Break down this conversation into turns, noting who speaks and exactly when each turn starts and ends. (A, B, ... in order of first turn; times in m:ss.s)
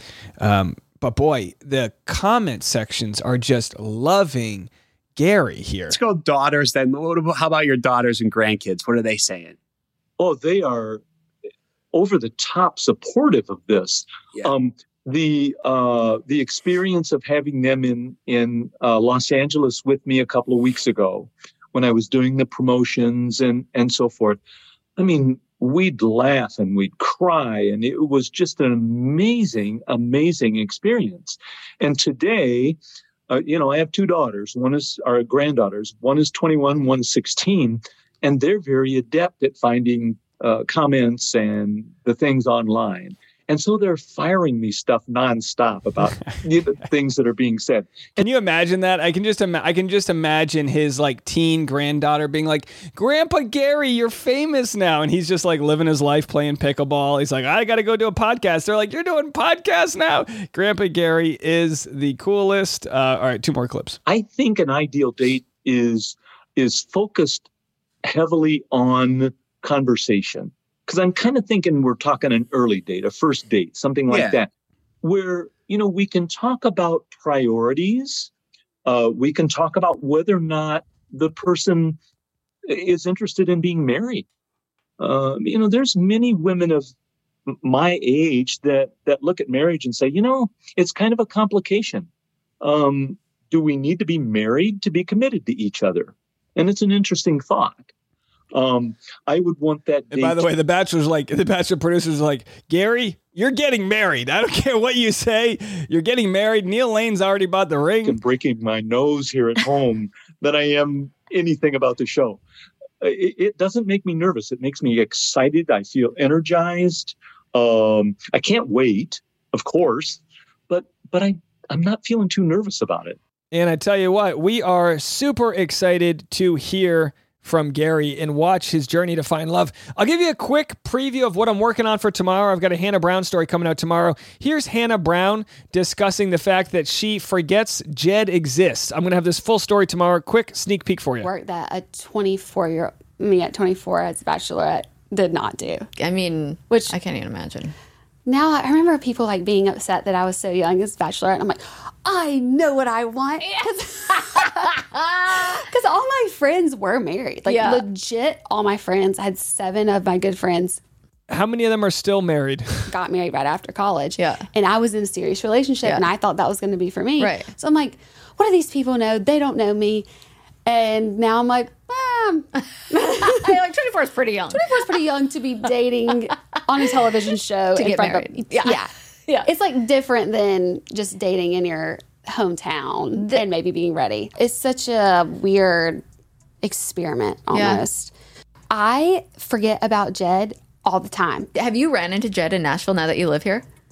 0:00.4-0:06.0 A
0:05.9-0:09.6 B
0:10.2-0:11.0 C
0:11.9-0:24.4 C
0:25.0-0:32.8 C
0:33.3-0:48.2 C
0:48.2-1:04.0 A
1:04.0-1:07.5 C
1:08.0-1:14.5 C
1:14.1-1:14.4 B
1:15.0-1:18.3 C
1:18.8-1:22.0 C
1:22.7-1:24.3 C
1:25.0-1:26.9 C
1:27.5-1:32.1 C
1:32.6-1:37.8 C
1:38.5-1:40.4 C
1:40.1-1:48.2 A
1:48.0-1:52.4 C
1:53.0-2:03.2 C
2:03.5-2:21.3 A
2:21.2-2:25.9 D
2:26.0-2:27.7 E
2:26.7-2:26.9 D
2:28.2-2:40.8 D
2:37.4-2:37.9 E
2:41.3-2:42.9 A
2:42.9-2:50.0 D
2:44.1-2:44.4 E
2:45.8-2:46.1 E
2:47.2-2:47.5 E
2:50.6-2:53.7 D
2:53.0-2:55.1 E
2:54.5-3:06.0 D
2:56.7-2:57.1 E
2:57.7-2:59.5 E
3:03.1-3:03.4 E
3:06.6-3:08.1 D
3:07.5-3:07.8 E
3:08.7-3:11.5 D
3:11.5-3:13.6 E